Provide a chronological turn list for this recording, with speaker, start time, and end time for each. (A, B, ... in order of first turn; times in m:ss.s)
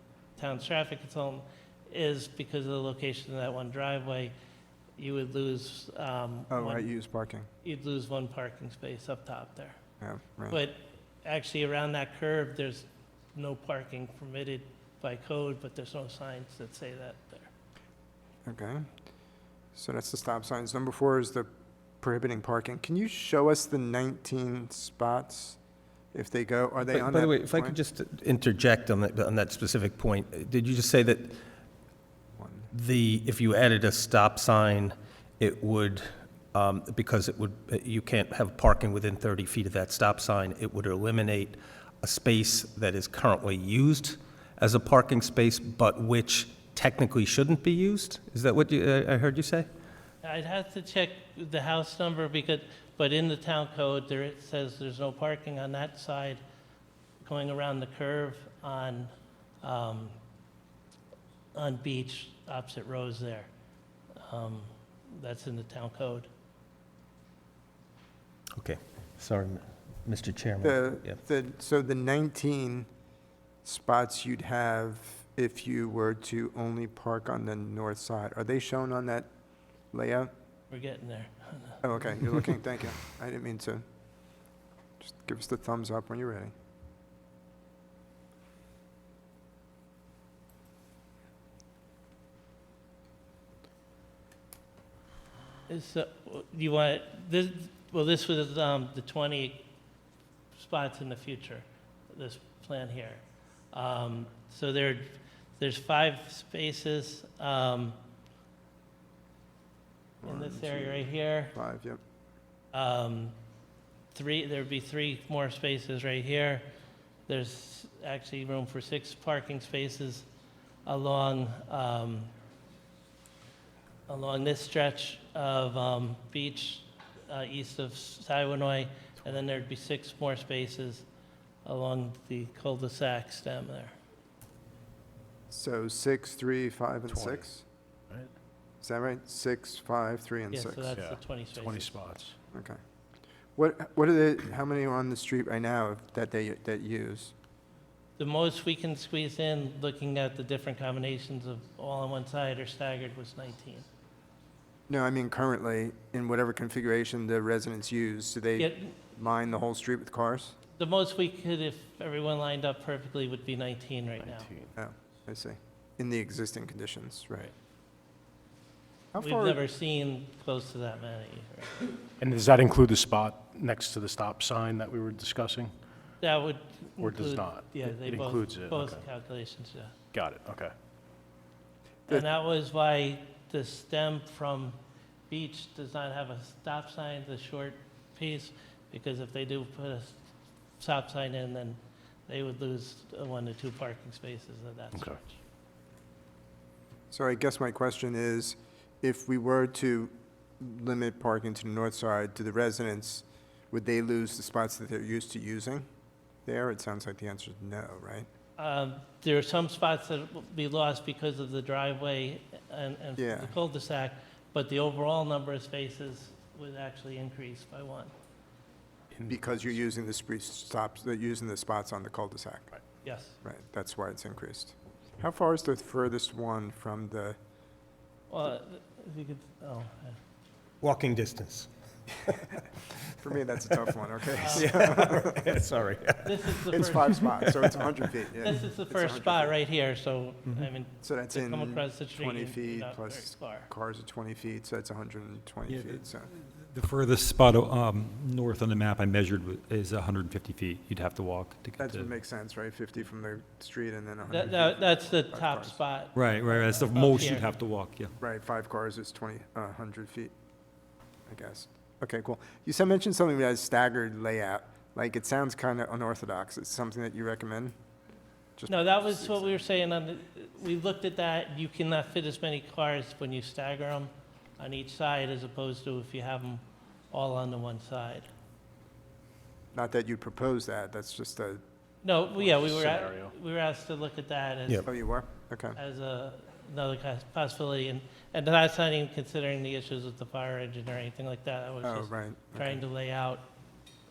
0:00.4-0:04.3 A
0:05.0-0:06.9 A
0:06.5-0:07.5 B
0:07.6-0:09.8 A
0:10.0-0:10.6 B
0:10.5-0:17.5 A
0:18.4-0:18.9 B
0:19.7-0:21.5 B
0:22.0-0:25.6 B
0:26.1-0:27.8 B
0:26.9-0:31.4 C
0:32.4-0:32.7 B
0:32.7-0:49.7 C
0:50.2-0:56.4 A
0:57.2-0:59.1 A
0:59.6-1:00.2 A
1:01.5-1:03.5 A
1:04.2-1:06.3 A
1:08.6-1:11.2 C
1:10.6-1:12.9 B
1:13.6-1:19.3 B
1:19.9-1:20.3 B
1:20.7-1:21.8 A
1:21.8-1:23.8 B
1:25.0-1:26.5 B
1:35.7-1:39.6 A
1:40.6-1:43.2 A
1:43.7-1:48.0 A
1:50.2-1:52.0 B
1:50.2-1:51.5 A
1:52.7-1:53.3 A
1:54.1-1:56.6 A
1:57.3-2:00.2 A
2:00.8-2:02.3 A
2:04.1-2:11.0 A
2:11.6-2:13.9 A
2:15.5-2:17.6 B
2:17.1-2:17.5 D
2:18.8-2:20.9 B
2:20.5-2:21.9 A
2:20.9-2:22.4 D
2:22.5-2:22.8 B
2:23.6-2:27.3 B
2:28.2-2:33.8 A
2:34.9-2:40.6 B
2:38.6-2:38.9 A
2:40.8-2:44.5 A
2:44.2-2:44.7 D
2:44.8-2:47.5 B
2:49.1-2:49.6 B
2:49.2-2:51.9 A
2:52.2-2:55.7 D
2:56.2-2:59.9 A
2:57.0-2:59.0 D
3:00.1-3:00.7 D
3:02.1-3:04.8 A
3:05.3-3:10.2 A
3:10.8-3:15.3 A
3:14.9-3:15.2 D
3:17.1-3:25.8 B
3:26.4-3:28.3 B
3:28.6-3:38.1 A
3:33.2-3:33.5 B
3:39.2-3:42.7 B
3:43.0-3:43.4 A
3:43.4-3:47.4 B
3:48.3-3:50.2 A
3:50.8-3:52.6 C
3:53.2-3:55.6 B
3:54.4-3:54.8 A
3:54.4-3:58.0 C
3:56.2-3:57.1 A
3:56.7-3:59.5 B
3:58.4-4:03.7 A
4:01.0-4:06.3 B
4:05.7-4:12.1 E
4:11.8-4:15.8 B
4:14.3-4:17.5 A
4:16.1-4:18.1 E
4:18.2-4:20.3 B
4:21.3-4:27.7 B
4:28.6-4:29.6 B
4:28.7-4:38.3 A
4:39.7-4:41.6 B
4:42.0-4:44.9 A
4:42.4-4:43.3 D
4:44.8-4:45.8 B
4:45.8-4:53.4 A
4:51.8-4:52.8 B